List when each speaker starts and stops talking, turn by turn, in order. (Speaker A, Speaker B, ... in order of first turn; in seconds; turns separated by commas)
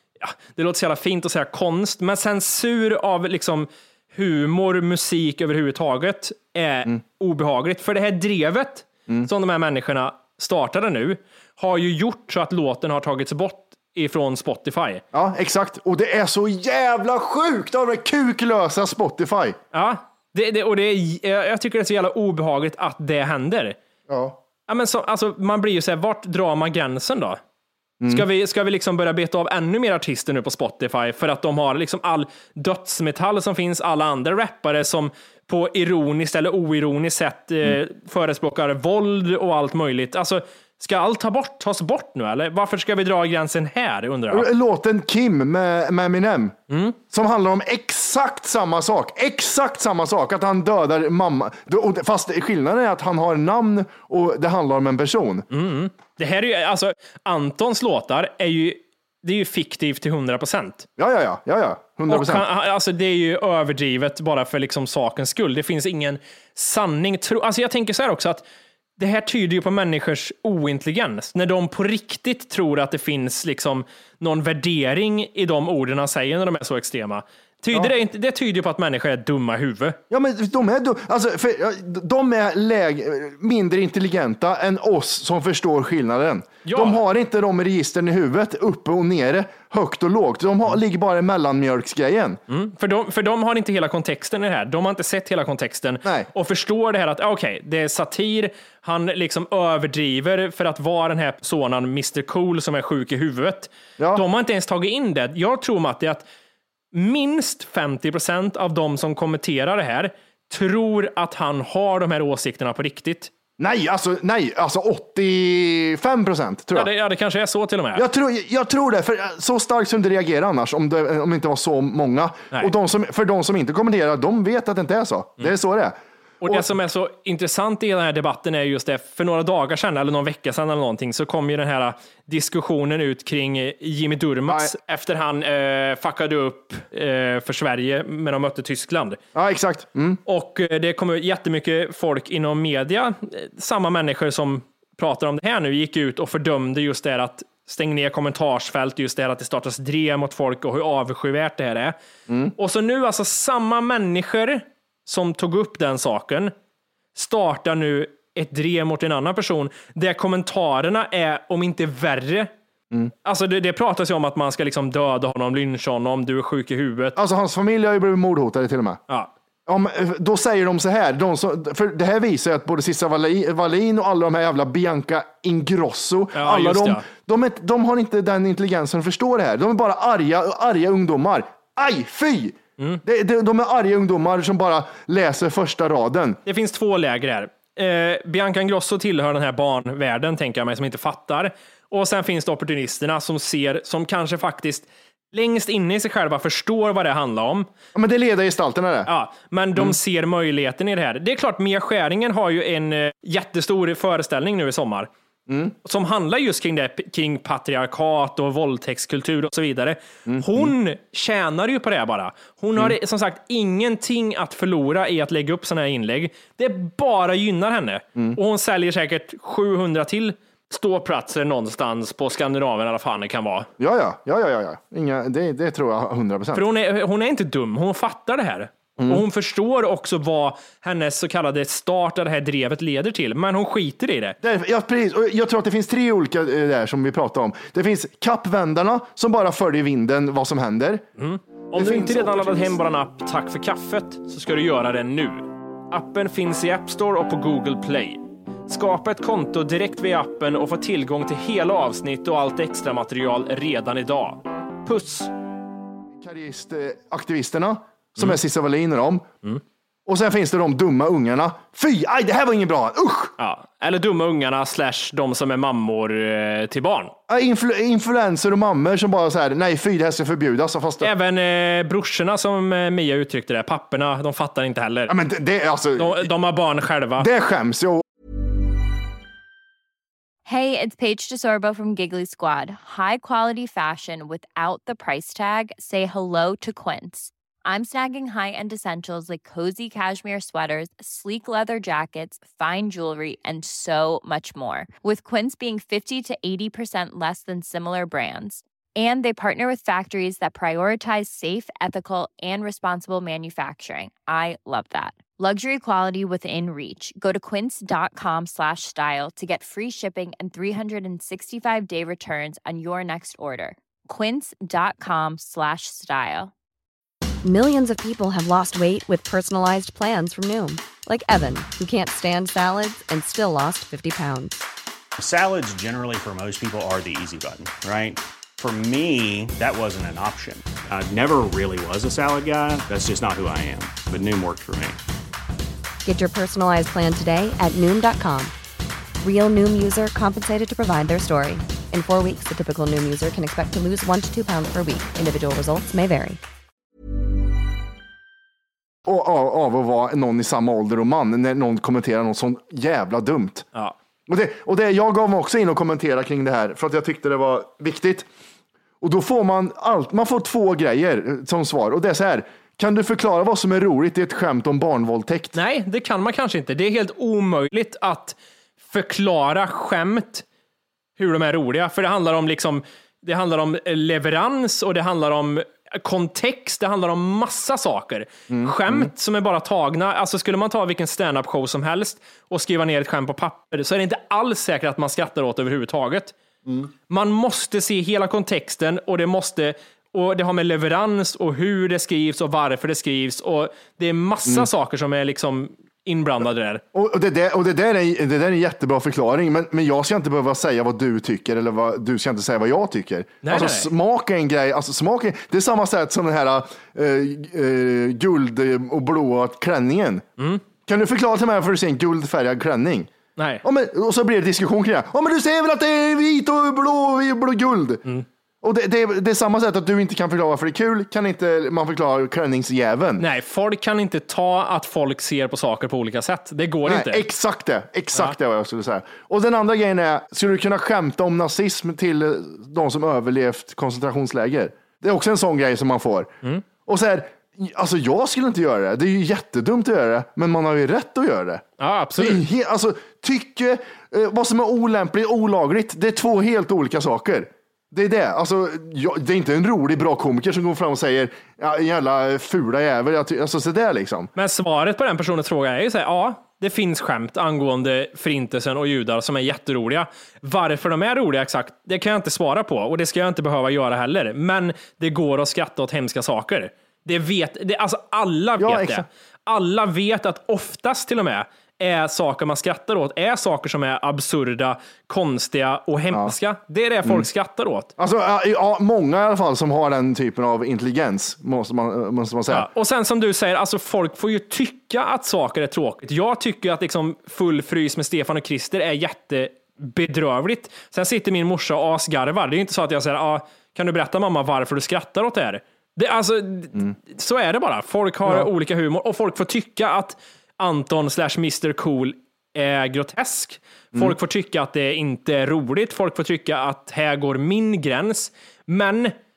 Speaker A: 0.2-15.0, Speaker B: 15.1-19.6, Speaker A: 19.7-23.8, Speaker B: 24.1-24.4, Speaker A: 24.7-27.4, Speaker B: 28.0-28.3, Speaker A: 28.1-44.5, Speaker B: 44.3-46.6, Speaker A: 46.7-47.0, Speaker B: 47.1-55.4, Speaker A: 55.5-60.9, Speaker B: 61.0-62.5, Speaker A: 62.1-68.4, Speaker A: 69.0-80.0, Speaker B: 80.1-92.4, Speaker A: 86.6-87.0, Speaker A: 92.5-106.2, Speaker B: 104.0-104.2, Speaker A: 106.9-113.3, Speaker B: 113.6-116.9, Speaker A: 116.7-118.0, Speaker B: 117.9-126.7, Speaker A: 126.4-139.2, Speaker B: 134.5-134.7, Speaker B: 139.3-140.2, Speaker A: 140.2-151.9, Speaker B: 152.3-152.5, Speaker A: 152.6-156.5, Speaker A: 157.1-162.5, Speaker A: 163.2-167.2, Speaker B: 167.2-169.0, Speaker B: 169.7-186.4, Speaker A: 176.3-177.0, Speaker A: 186.4-197.7, Speaker B: 197.9-199.1, Speaker A: 199.1-205.1, Speaker B: 205.5-205.7, Speaker A: 205.8-223.7, Speaker B: 210.2-210.7, Speaker B: 223.8-226.6, Speaker A: 226.5-234.4, Speaker B: 229.0-229.2, Speaker B: 234.4-241.0, Speaker A: 241.2-255.3, Speaker B: 241.7-242.8, Speaker B: 256.2-259.3, Speaker B: 260.1-263.3, Speaker A: 263.4-267.1, Speaker B: 267.3-271.1, Speaker A: 271.0-275.1, Speaker B: 275.1-276.3, Speaker A: 276.0-277.3, Speaker B: 277.2-278.0, Speaker C: 280.4-316.5, Speaker D: 317.4-324.6, Speaker E: 325.2-335.0, Speaker D: 336.0-338.5, Speaker D: 339.2-346.4, Speaker B: 349.0-353.6, Speaker B: 354.3-358.3, Speaker B: 359.0-365.5, Speaker A: 365.5-370.4, Speaker A: 371.2-386.3, Speaker B: 378.5-379.1, Speaker A: 387.1-396.8, Speaker B: 396.9-410.2, Speaker A: 403.4-403.9, Speaker A: 410.4-410.6, Speaker B: 410.9-413.1, Speaker A: 413.4-413.6, Speaker B: 413.6-418.0, Speaker B: 418.6-423.2, Speaker A: 423.2-427.3, Speaker B: 426.9-436.3, Speaker B: 436.9-441.6, Speaker A: 441.8-442.4, Speaker B: 442.2-454.3, Speaker A: 454.3-477.9, Speaker B: 468.6-469.1, Speaker B: 478.0-482.7, Speaker A: 482.5-509.1